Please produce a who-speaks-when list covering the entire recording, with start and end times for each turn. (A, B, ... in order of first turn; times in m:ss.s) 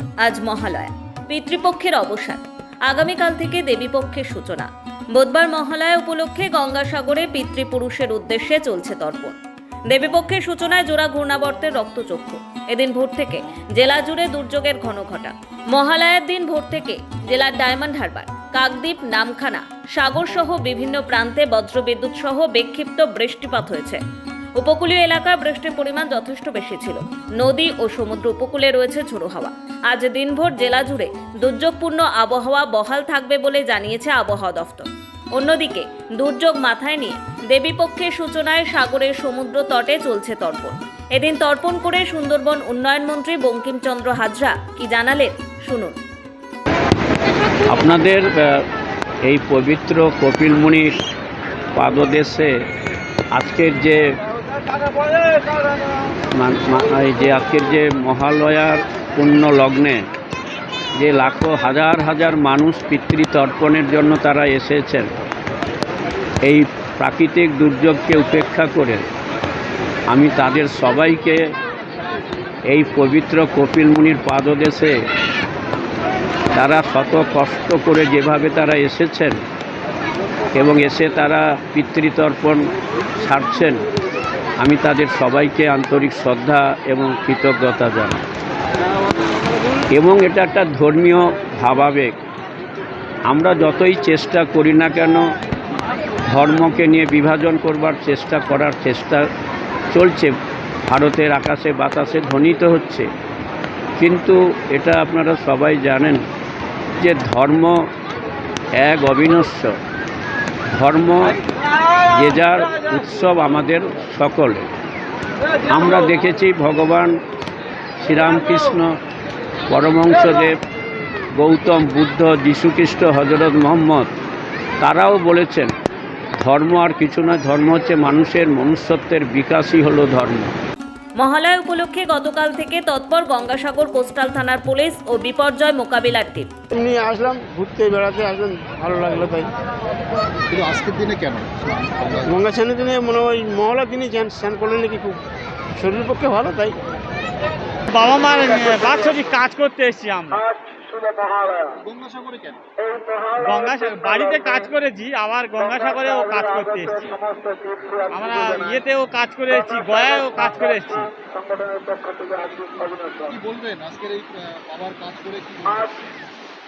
0:00.2-0:09.4 A
0:09.9-0:24.0 A
0:24.6-0:46.0 A
0:47.7-0:48.3 B
0:49.3-0:51.0 B
0:51.7-0:52.5 B
0:53.3-0:54.0 B
0:56.3-1:00.0 B
1:01.0-1:05.1 B
1:06.4-1:09.0 B
1:10.1-1:11.4 B
1:12.7-1:14.9 B
1:16.5-1:19.4 B
1:20.5-1:22.6 B
1:23.2-1:23.8 B
1:24.6-1:28.2 B
1:29.9-1:32.1 B
1:33.3-1:35.2 B
1:36.3-1:39.2 B
1:39.9-1:40.3 B
1:40.9-1:43.1 B
1:44.0-1:46.2 B
1:47.0-1:47.7 B
1:48.8-1:49.7 B
1:50.7-1:51.4 B
1:52.1-1:54.7 B
1:55.7-1:57.1 B
1:58.0-1:58.9 B
1:59.7-2:00.5 B
2:01.4-2:04.1 B
2:04.8-2:05.7 B
2:06.4-2:10.5 B
2:11.2-2:16.5 A
2:16.7-2:19.5 C
2:20.5-2:22.3 D
2:22.2-2:25.2 C
2:25.8-2:26.7 C
2:27.9-2:30.4 E
2:31.7-2:32.6 D
2:33.3-2:37.2 E
2:38.0-2:41.1 E
2:42.9-2:46.0 D